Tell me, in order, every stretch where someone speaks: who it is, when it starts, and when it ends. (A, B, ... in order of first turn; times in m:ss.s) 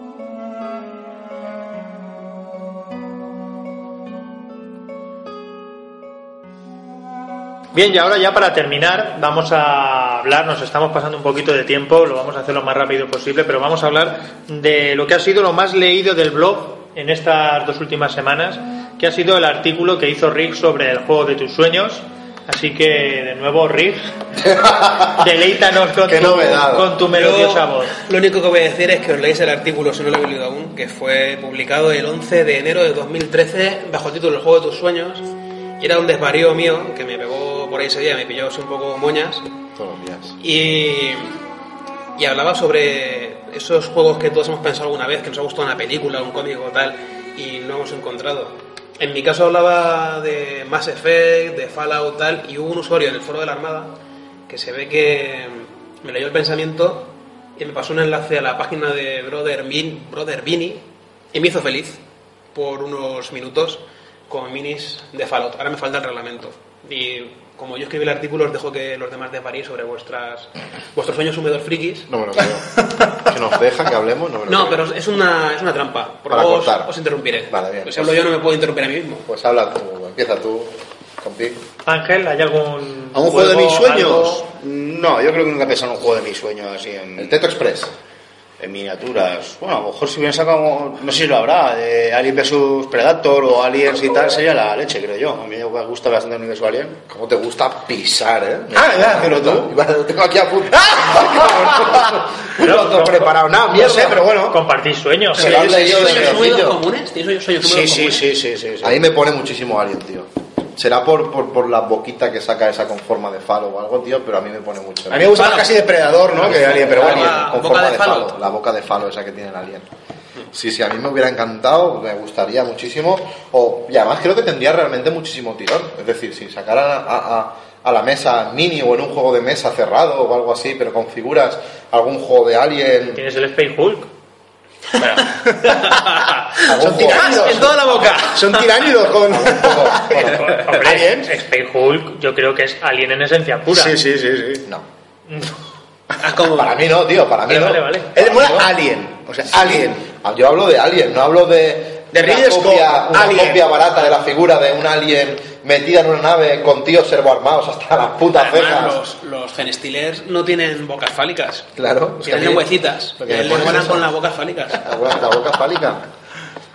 0:07.7-0:24.0 A
0:24.4-0:25.2 B
0:25.1-0:27.9 A
0:26.0-0:26.9 B
0:27.1-0:35.3 C
0:35.8-0:39.5 C
0:39.8-0:40.4 B
0:40.4-0:41.4 C
0:42.2-0:53.9 C
0:54.5-1:02.0 C
1:02.5-1:12.1 C
1:12.1-1:14.9 B
1:14.5-1:19.3 C
1:16.3-1:16.9 B
1:17.5-1:18.2 B
1:19.3-1:21.6 B
1:21.8-1:24.4 A
1:23.1-1:27.4 D
1:27.2-1:27.9 B
1:28.6-1:37.0 D
1:37.1-1:44.3 B
1:38.7-1:39.7 D
1:40.8-1:42.1 D
1:42.6-1:43.3 A
1:43.7-1:44.6 D
1:44.4-1:45.5 A
1:45.3-1:46.8 B
1:45.3-1:48.2 C
1:47.6-1:49.0 D
1:48.8-1:55.5 B
1:55.1-1:57.4 D
1:55.4-1:55.8 C
1:56.4-1:59.9 B
1:56.4-1:58.3 C
2:00.5-2:13.2 B
2:13.2-2:14.1 A
2:15.0-2:16.0 D
2:15.6-2:18.6 C
2:16.7-2:17.8 B
2:16.8-2:21.3 D
2:19.3-2:20.6 B
2:20.1-2:24.0 A
2:23.7-2:24.6 D
2:26.2-2:26.9 C
2:26.4-2:28.7 B
2:27.5-2:28.1 A
2:28.2-2:30.0 D
2:29.5-2:39.0 B
2:32.1-2:33.8 D
2:38.3-2:41.7 C
2:41.8-2:44.1 B
2:42.2-2:44.9 C
2:44.8-2:46.1 B